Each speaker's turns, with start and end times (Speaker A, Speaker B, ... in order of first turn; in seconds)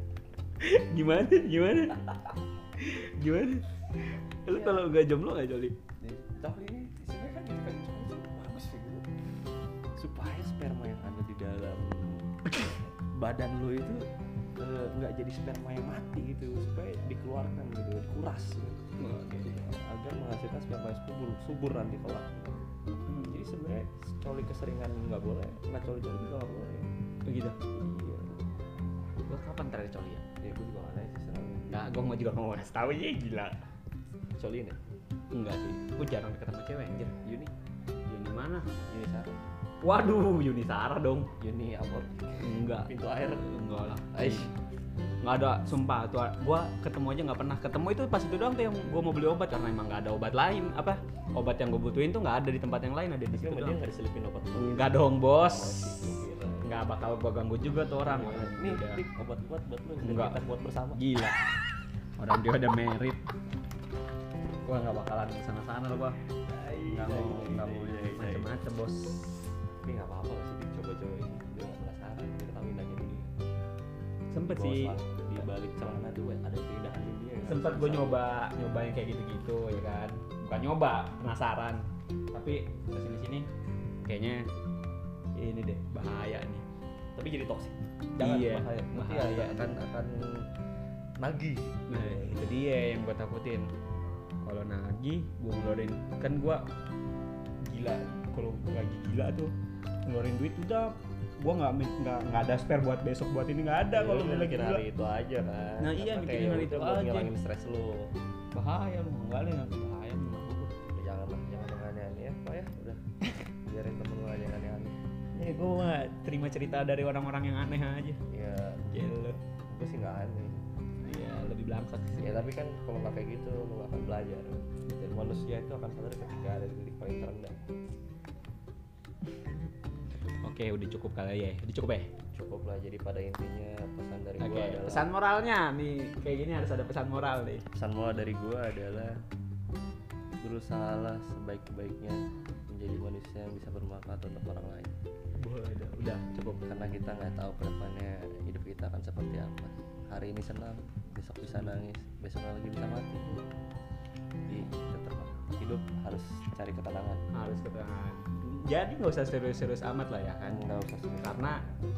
Speaker A: 0.6-2.1, 2.8-5.8, 19.0-19.6, 23.1-23.4, 27.3-27.6, 29.3-30.2, 31.7-33.6, 35.3-37.1, 38.0-38.7, 39.8-41.3, 42.4-44.5, 45.2-53.8, 54.5-59.0, 60.0-60.4, 61.0-61.4, 62.2-63.2, 64.6-69.5, 74.3-74.9, 77.4-83.5, 84.0-84.5, 85.4-86.7, 88.2-89.7, 91.9-93.7, 94.4-96.6, 97.6-99.5, 100.0-104.8, 105.8-107.3, 108.5-110.7, 115.4-118.2, 118.9-119.4, 121.0-122.5, 124.9-125.2, 130.4-132.1, 134.4-137.6, 145.4-146.6, 157.3-160.6, 161.2-161.6
Speaker B: 4.5-4.8, 6.0-9.1, 10.0-18.8, 19.4-22.6, 23.2-26.9, 27.7-28.4, 30.4-31.9, 34.4-34.8, 37.2-37.5, 38.7-39.4, 41.4-43.5, 44.1-44.5, 53.3-56.7, 58.0-61.0, 66.8-68.5, 69.8-73.3, 74.4-78.2, 87.2-90.5, 91.2-92.5, 103.9-108.1, 110.9-113.0, 113.6-115.0, 118.3-120.6, 122.2-127.6, 132.3-135.1, 137.7-139.2, 140.4-144.9, 146.6-153.5, 154.5-157.2, 160.4-161.7